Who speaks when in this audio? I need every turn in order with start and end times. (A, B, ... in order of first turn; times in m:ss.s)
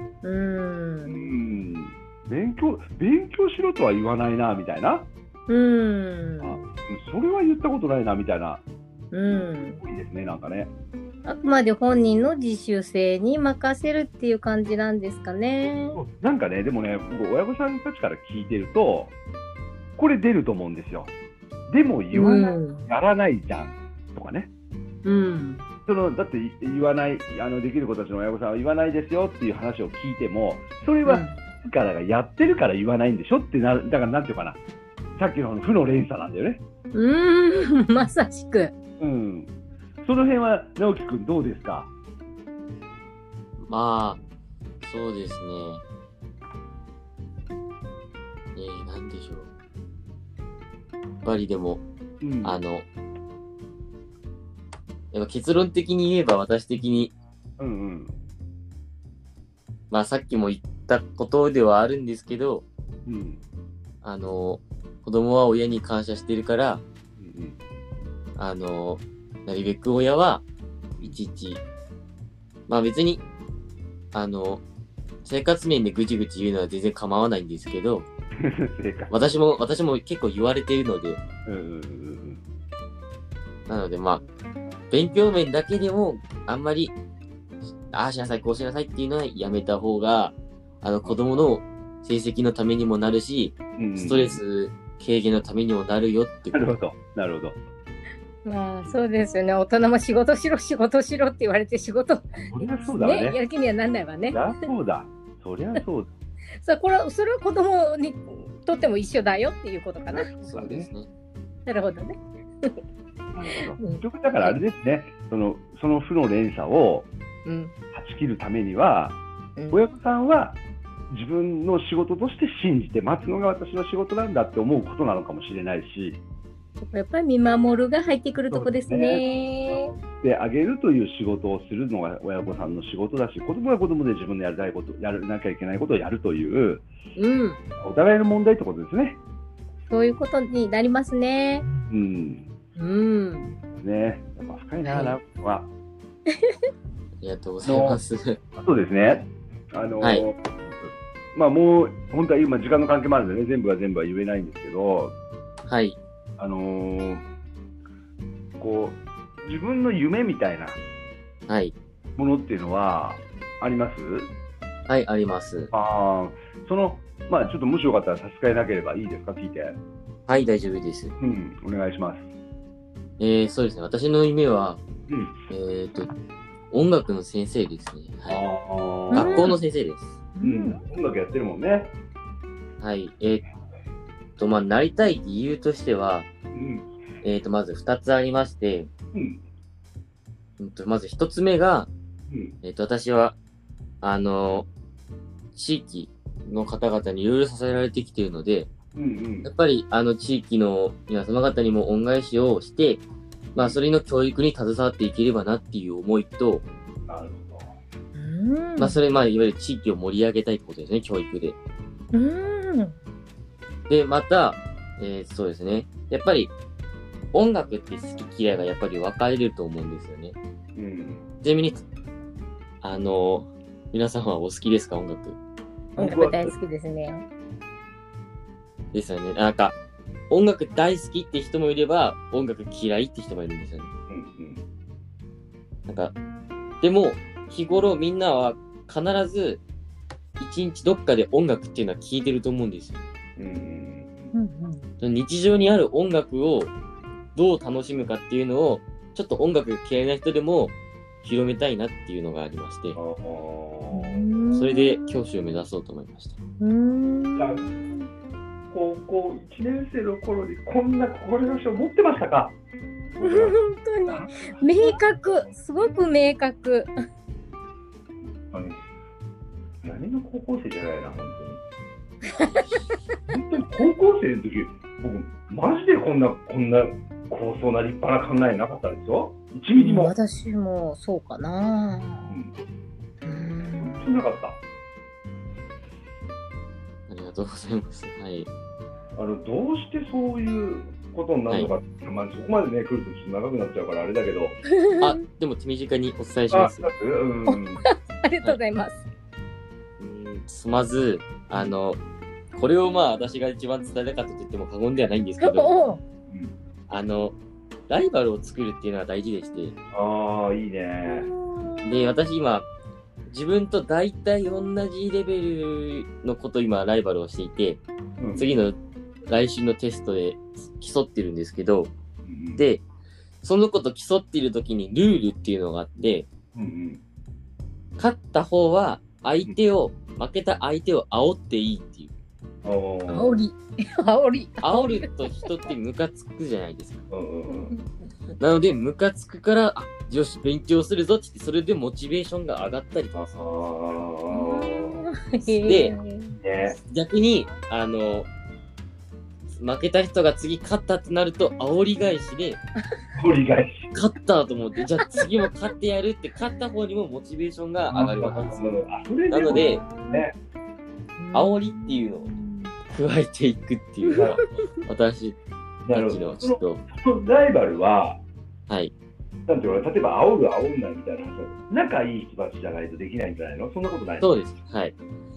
0:00.2-0:01.3 A
0:01.0-0:05.1 B
0:05.5-0:06.7 A
0:06.4-0:08.6 B
0:09.1-0:09.8 A
0:09.2-0:10.7 B
0:11.2-0:16.0 A
0:15.9-0:19.1 B
0:20.0-0:21.1 B
0:21.7-0:24.5 B
0:22.1-0:22.9 A
0:25.0-0:25.6 A
0:25.8-0:34.6 B
0:31.0-0:31.4 A
0:35.2-0:36.6 B
0:36.9-0:38.7 A
0:39.0-0:41.9 B
0:43.6-0:44.2 C
0:44.8-0:45.8 C
0:48.6-0:49.5 C
0:51.2-0:51.8 C
0:52.2-0:52.6 B
0:52.4-0:52.8 C
0:55.1-0:57.1 C
0:57.6-0:58.1 B
0:59.9-1:02.6 C
1:03.0-1:03.4 B
1:04.0-1:06.8 C
1:07.2-1:07.6 B
1:08.4-1:10.4 C
1:11.0-1:11.6 C
1:12.7-1:13.2 C
1:14.1-1:14.6 C
1:15.2-1:18.1 C
1:18.4-1:19.1 B
1:19.1-1:21.2 C
1:21.4-1:22.4 B
1:23.7-1:24.2 C
1:24.9-1:26.9 C
1:27.9-1:36.7 C
1:33.8-1:34.4 B
1:36.5-1:37.6 B
1:38.4-1:44.5 A
1:42.4-1:43.4 B
1:44.3-1:46.1 B
1:46.6-1:50.3 A
1:50.2-1:51.1 C
1:50.5-1:50.9 B
1:51.7-1:52.8 A
1:53.3-1:57.1 B
1:53.8-1:54.6 A
1:57.4-1:57.7 A
1:57.9-1:59.2 B
1:59.6-1:59.8 A
1:59.7-2:00.6 B
2:01.1-2:06.2 B
2:06.8-2:09.9 A
2:08.5-2:16.8 B
2:17.2-2:17.6 A
2:17.8-2:19.2 B
2:19.9-2:21.6 A
2:21.7-2:22.5 B
2:22.8-2:23.6 A
2:23.7-2:25.7 B
2:24.8-2:25.2 A
2:27.2-2:28.4 C
2:27.6-2:28.0 B
2:28.5-2:35.2 B
2:35.7-2:36.0 C
2:36.4-2:37.2 B
2:38.6-2:40.8 B
2:41.5-2:41.7 C
2:42.2-2:44.3 B
2:44.9-2:45.7 C
2:45.7-2:49.8 B
2:50.3-2:51.1 C
2:51.2-2:52.3 B
2:53.2-2:54.8 C
2:55.1-2:55.4 B
2:55.5-2:56.1 C
2:56.7-2:58.4 C
2:58.3-2:59.5 B
2:59.1-2:59.5 A
2:59.1-3:00.2 C
3:00.3-3:00.8 A
3:00.4-3:01.9 B
3:02.8-3:03.4 C
3:04.4-3:06.3 C
3:06.5-3:06.8 B
3:07.2-3:08.9 C
3:09.1-3:09.4 B
3:10.6-3:11.9 C
3:12.3-3:12.6 B
3:12.6-3:13.4 C
3:14.0-3:14.7 C
3:15.5-3:18.7 C
3:18.9-3:19.5 B
3:19.4-3:26.6 C
3:27.1-3:27.7 B
3:28.1-3:29.0 A
3:28.8-3:31.6 C
3:32.1-3:33.0 A
3:33.9-3:36.5 C
3:37.3-3:40.4 C
3:40.8-3:41.2 B
3:41.4-3:41.8 C
3:42.8-3:45.4 C
3:46.0-3:46.5 B
3:46.0-3:47.2 A
3:48.9-3:49.8 C
3:50.3-3:53.9 C
3:54.1-3:54.6 B
3:55.8-3:56.1 C
3:56.8-3:59.6 C
4:00.4-4:03.0 C
4:03.4-4:04.3 B
4:04.3-4:04.9 A
4:05.0-4:06.7 C
4:07.3-4:13.0 C
4:12.9-4:14.3 B
4:13.9-4:15.1 A
4:14.5-4:16.4 C
4:16.6-4:18.1 A
4:17.4-4:17.7 B
4:18.7-4:22.6 B
4:23.1-4:25.5 B
4:23.2-4:26.9 A
4:28.4-4:28.8 B
4:29.8-4:31.6 B
4:32.3-4:32.6 A
4:33.3-4:40.1 B
4:39.8-4:42.3 A
4:42.3-4:42.5 B
4:43.2-4:44.3 A
4:43.8-4:44.6 B
4:47.1-4:48.5 C
4:49.1-4:54.6 B
4:54.7-4:55.2 A
4:55.0-4:56.9 C
4:56.5-4:57.8 B
4:57.5-4:59.0 A
5:00.0-5:02.0 C
5:02.5-5:05.8 C
5:05.4-5:06.0 A
5:06.3-5:06.5 B
5:06.9-5:07.4 C
5:07.9-5:09.7 C
5:09.9-5:11.3 B
5:11.0-5:12.3 A
5:11.8-5:12.7 C
5:13.3-5:17.8 C
5:18.2-5:18.5 B
5:18.4-5:18.8 C
5:19.3-5:21.9 C
5:22.2-5:22.6 B
5:22.6-5:22.8 C
5:23.4-5:26.3 C
5:26.5-5:27.0 B
5:28.0-5:32.1 C
5:32.6-5:33.4 B
5:33.1-5:35.5 A
5:34.6-5:37.0 C
5:37.1-5:37.7 B
5:37.5-5:38.4 A
5:38.4-5:43.4 C
5:43.1-5:45.0 B
5:44.3-5:46.4 A
5:45.4-5:45.9 C
5:46.3-5:46.8 B
5:46.8-5:48.3 C
5:49.5-5:52.6 C
5:53.1-5:53.9 B
5:53.9-5:59.8 C
5:55.0-5:55.4 A
5:57.9-6:00.3 B
5:59.5-6:00.3 A
6:01.2-6:02.7 A
6:01.3-6:02.3 C
6:02.9-6:05.4 C
6:04.0-6:04.5 A
6:04.2-6:04.4 B
6:05.8-6:08.2 B
6:05.9-6:06.8 C
6:09.4-6:14.3 B
6:14.2-6:15.0 C